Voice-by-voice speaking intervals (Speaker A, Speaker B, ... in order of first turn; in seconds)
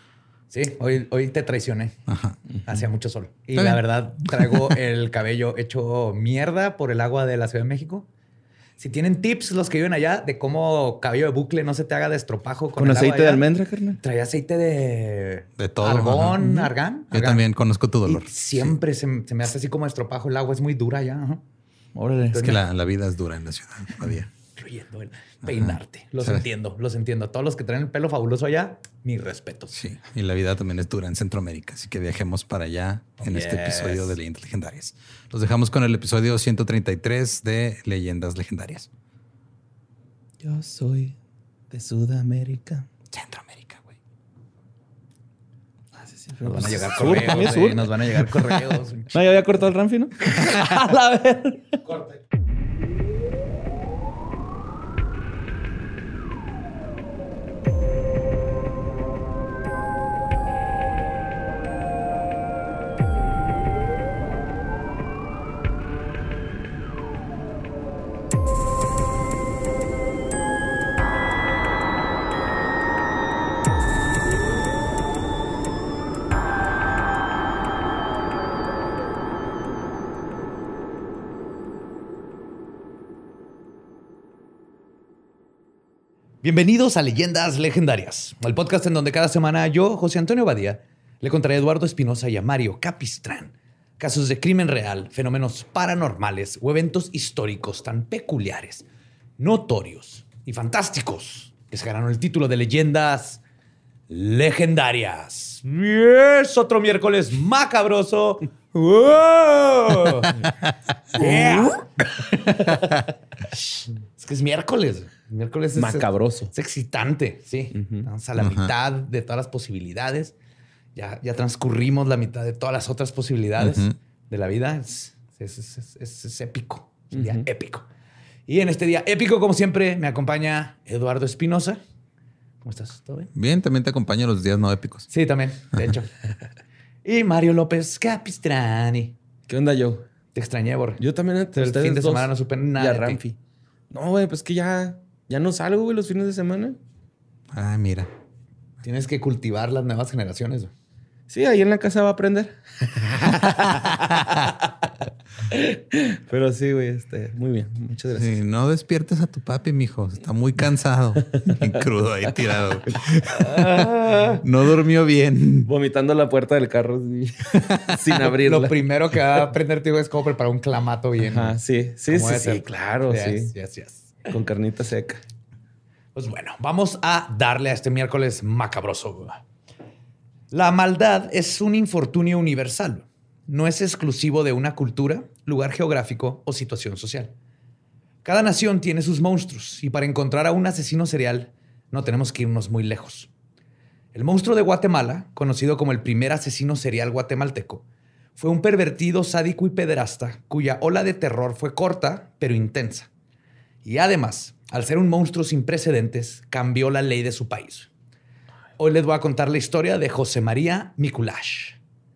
Speaker A: 0.5-2.0, 2.6-8.1, 8.8-13.4, 14.0-17.5, 18.1-21.4, 22.3-22.6, 24.6-29.7, 33.3-34.1, 46.4-49.2, 86.4-98.9, 99.4-103.4, 104.1-110.4, 111.1-111.9, 113.5-120.3, 121.0-127.9, 128.5-131.8, 132.6-133.3, 135.1-136.1, 137.1-139.2, 140.3-141.0, 141.6-143.2, 148.8-150.7, 163.4-164.4, 168.2-171.6, 172.1-174.3, 176.2-179.4, 180.5-187.3, 188.2-193.3, 194.1-197.8, 198.4-203.1, 203.8-207.9, 208.8-211.8
Speaker B: 2.1-2.4, 3.6-4.6, 15.6-16.6, 17.1-18.8, 22.3-24.3, 25.4-26.4, 29.7-38.9, 43.1-43.9, 110.4-110.7, 112.6-113.0, 118.4-118.7, 123.6-124.0, 133.3-135.1, 147.5-148.1, 158.2-163.9, 164.4-165.7, 167.5-168.0
Speaker C: 12.8-14.0, 16.4-16.7, 21.9-22.4, 40.4-41.2, 41.7-42.9, 46.0-48.2, 49.1-51.8, 111.2-111.8, 115.8-116.5, 117.8-118.0, 127.1-127.5, 139.5-140.1, 141.0-143.4, 143.9-146.8, 151.3-154.8, 155.5-158.4, 165.7-168.8, 171.2-173.5, 174.3-175.2